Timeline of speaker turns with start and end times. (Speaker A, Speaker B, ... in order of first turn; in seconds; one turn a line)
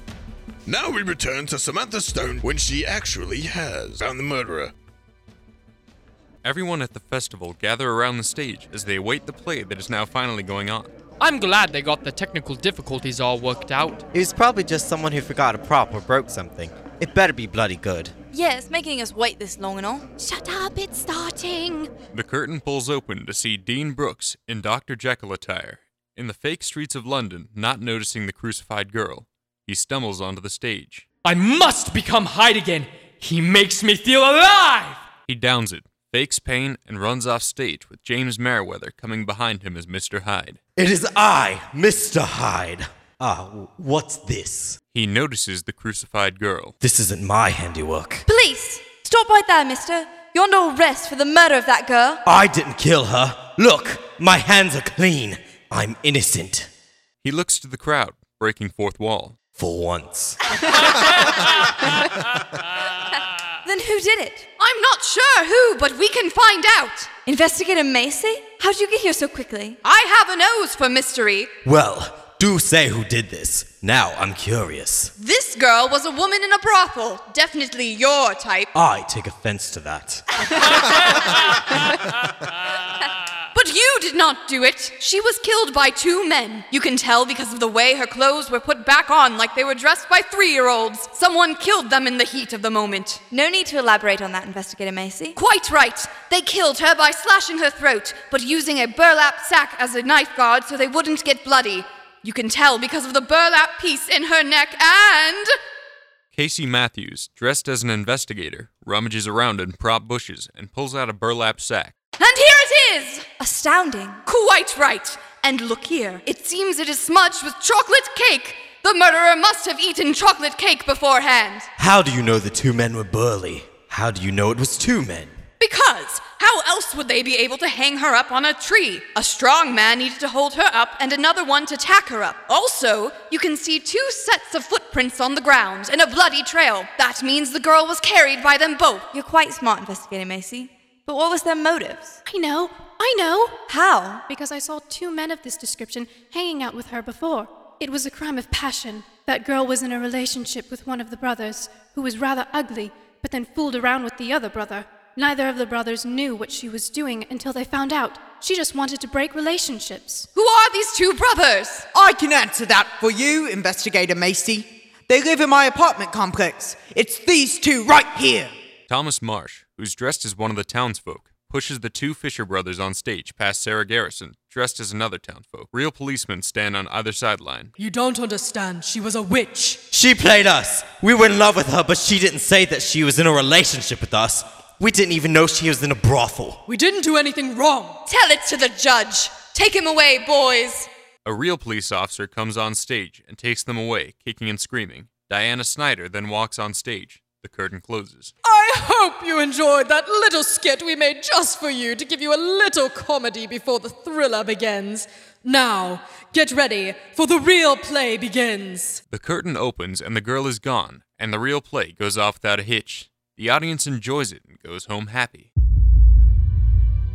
Speaker A: 0.7-4.7
Speaker B: 6.4-10.9
Speaker C: 11.2-14.1
Speaker D: 14.1-18.1
Speaker E: 18.3-20.1
Speaker F: 20.2-21.9
Speaker B: 22.1-31.1
Speaker C: 31.2-35.1
Speaker B: 35.3-40.6
Speaker D: 40.8-44.8
Speaker B: 44.9-46.7
Speaker D: 46.8-48.2
Speaker G: 48.4-48.9
Speaker E: 48.9-52.2
Speaker D: 52.2-56.7
Speaker B: 57.2-59.3
Speaker D: 59.5-61.3
Speaker E: 63.6-64.5
Speaker G: 64.6-67.1
Speaker E: 67.2-69.8
Speaker G: 69.8-71.5
Speaker D: 71.6-75.1
Speaker G: 75.2-78.7
Speaker D: 78.7-81.1
Speaker G: 80.5-81.1
Speaker G: 83.5-93.2
Speaker E: 93.3-95.3
Speaker G: 95.3-105.5
Speaker B: 106.3-111.9
Speaker G: 112.2-121.7
Speaker E: 113.5-114.1
Speaker D: 121.8-125.4
Speaker G: 125.6-139.1
Speaker E: 139.1-142.2
Speaker F: 142.3-143.6
Speaker E: 143.7-144.2
Speaker F: 144.3-160.3
Speaker G: 160.3-161.9
Speaker H: 161.9-168.5
Speaker B: 168.9-177.7
Speaker I: 177.8-179.8
Speaker D: 179.9-186.6
Speaker I: 186.7-188.0
Speaker G: 188.1-190.9
Speaker B: 191.2-198.3
Speaker I: 198.4-209.0
Speaker B: 209.1-215.5